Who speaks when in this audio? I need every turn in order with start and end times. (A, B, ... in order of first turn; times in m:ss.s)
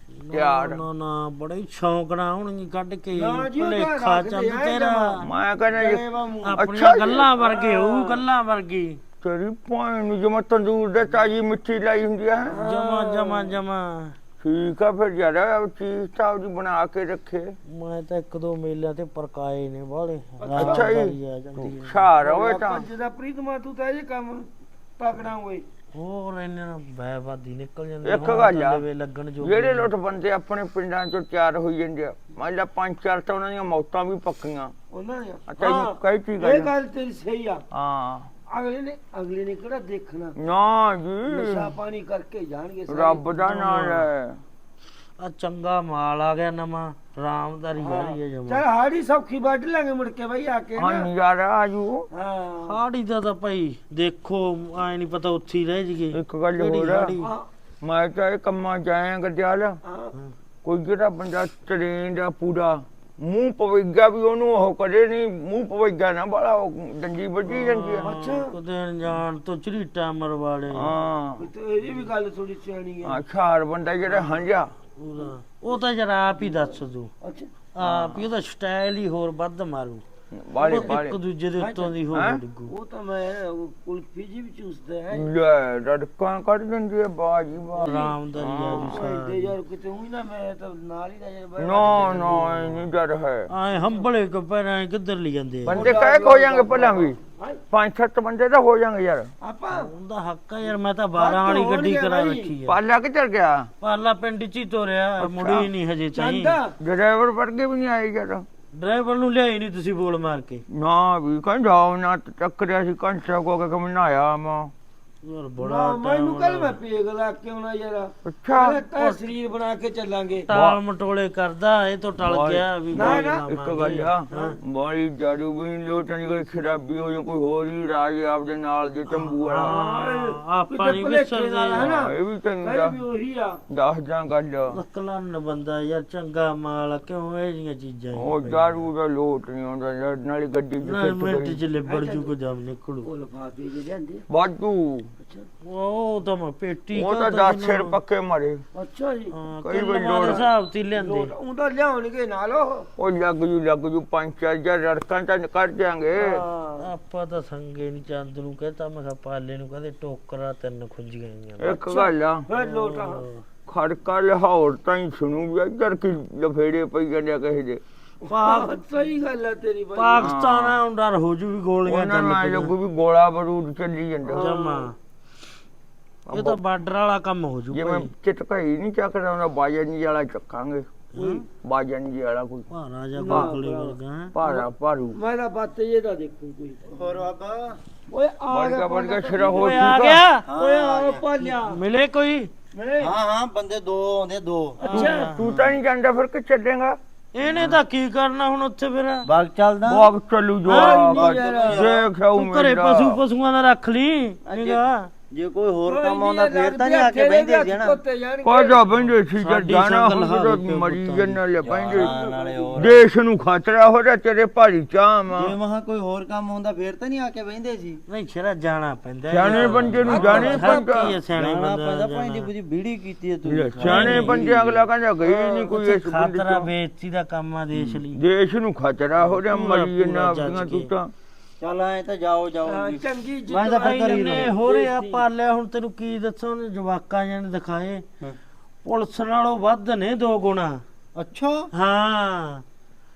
0:00.2-0:05.2 A
0:00.3-0:00.8 B
0:03.1-0:05.2 C
0:05.2-0:06.0 B
0:05.7-0:08.2 C
0:06.4-0:09.0 A
0:06.6-0:07.2 B
0:09.2-0:12.6 B
0:12.5-0:13.5 C
0:12.6-0:14.1 A
0:14.4-0:17.6 B
0:17.7-0:22.0 A
0:20.4-0:20.9 C
0:20.6-0:22.9 B
0:22.2-0:24.5 C
0:25.0-0:25.6 C
0:25.9-0:29.9 A
0:28.0-0:28.8 B
0:29.4-0:34.7 B
0:34.9-0:37.6 C
0:35.5-0:36.7 B
0:37.7-0:38.3 B
0:38.5-0:40.3 C
0:40.4-0:41.7 B
0:41.3-0:43.4 C
0:42.9-0:44.4 B
0:43.5-0:44.0 A
0:45.2-0:48.6 A
0:47.8-0:51.1 C
0:50.8-0:52.1 B
0:52.1-0:52.8 C
0:52.6-0:57.3 A
0:56.1-0:57.1 B
0:57.2-0:57.5 C
0:57.8-0:59.8 B
0:59.8-1:00.1 C
1:00.6-1:08.1 B
1:07.6-1:10.9 A
1:08.0-1:08.5 C
1:10.7-1:11.5 B
1:11.4-1:13.2 C
1:13.0-1:14.7 B
1:14.1-1:14.3 C
1:15.0-1:17.1 A
1:16.4-1:17.5 C
1:17.7-1:20.0 A
1:17.8-1:18.2 B
1:20.3-1:21.2 B
1:20.6-1:21.0 C
1:20.6-1:22.7 A
1:21.6-1:21.9 C
1:22.1-1:22.4 B
1:22.7-1:25.3 C
1:25.1-1:29.0 B
1:27.8-1:29.5 A
1:28.8-1:32.9 C
1:31.6-1:33.5 B
1:33.5-1:35.9 A
1:35.6-1:37.2 B
1:35.7-1:37.6 C
1:37.7-1:39.3 B
1:39.4-1:39.9 C
1:39.7-1:42.8 A
1:41.2-1:42.5 C
1:42.6-1:43.7 B
1:43.8-1:46.6 A
1:45.2-1:45.7 B
1:46.2-1:46.7 C
1:46.8-1:48.4 B
1:48.8-1:50.6 A
1:50.7-1:54.7 B
1:55.2-1:56.8 A
1:55.6-2:00.5 C
1:58.2-1:58.8 B
2:00.5-2:04.6 A
2:00.5-2:00.8 B
2:02.2-2:09.8 B
2:02.9-2:03.4 C
2:06.2-2:06.8 C
2:09.1-2:11.9 A
2:09.6-2:13.6 C
2:11.8-2:13.0 B
2:13.7-2:14.8 B
2:14.7-2:18.8 A
2:18.1-2:21.6 B
2:20.8-2:23.1 A
2:21.8-2:22.3 C
2:23.0-2:24.2 C
2:24.3-2:25.1 B
2:25.2-2:25.5 C
2:25.6-2:28.0 A
2:26.9-2:28.6 B
2:28.7-2:29.3 C
2:29.3-2:31.3 A
2:29.6-2:30.4 B
2:30.2-2:32.9 C
2:33.0-2:36.4 B
2:36.2-2:36.9 C
2:36.8-2:41.8 A
2:41.6-2:42.4 B
2:41.6-2:43.2 C
2:42.5-2:43.4 A
2:43.7-2:47.8 B
2:48.2-2:48.8 A
2:48.3-2:50.3 C
2:50.0-2:52.7 A
2:50.2-2:50.8 B
2:51.8-2:54.5 B
2:54.2-2:54.9 C
2:54.4-2:54.9 A
2:56.3-2:56.6 B
2:56.3-2:58.1 A
2:57.7-3:02.7 B
3:01.1-3:01.4 A
3:02.7-3:04.3 A
3:03.2-3:06.9 C
3:03.2-3:03.5 B
3:04.3-3:05.2 B
3:06.9-3:07.8 D
3:08.1-3:11.8 C
3:08.5-3:10.2 B
3:09.5-3:10.4 A
3:10.4-3:11.5 D
3:11.6-3:12.5 A
3:12.7-3:13.1 C
3:13.0-3:14.8 D
3:14.8-3:15.3 C
3:14.8-3:15.4 A
3:14.9-3:17.0 B
3:15.4-3:15.8 D
3:17.3-3:19.3 A
3:17.4-3:17.8 D
3:19.2-3:20.1 D
3:19.8-3:23.2 B
3:20.7-3:20.9 A
3:20.7-3:22.0 C
3:21.1-3:22.0 D
3:22.3-3:25.1 A
3:24.4-3:28.0 D
3:25.8-3:29.0 C
3:28.4-3:32.1 B
3:29.3-3:31.4 A
3:31.6-3:33.0 D
3:31.9-3:32.9 C
3:32.8-3:35.5 B
3:35.3-3:38.0 D
3:38.1-3:42.5 A
3:39.3-3:41.2 B
3:39.7-3:40.6 D
3:40.1-3:41.2 C
3:41.3-3:44.8 D
3:43.4-3:46.7 B
3:43.8-3:44.4 A
3:45.3-3:48.2 A
3:47.7-3:48.0 D
3:48.2-3:51.1 B
3:49.5-3:50.9 A
3:51.6-3:54.5 D
3:52.6-3:55.2 C
3:53.8-3:58.0 A
3:58.8-4:00.8 A
4:01.1-4:01.7 D
4:01.7-4:02.6 A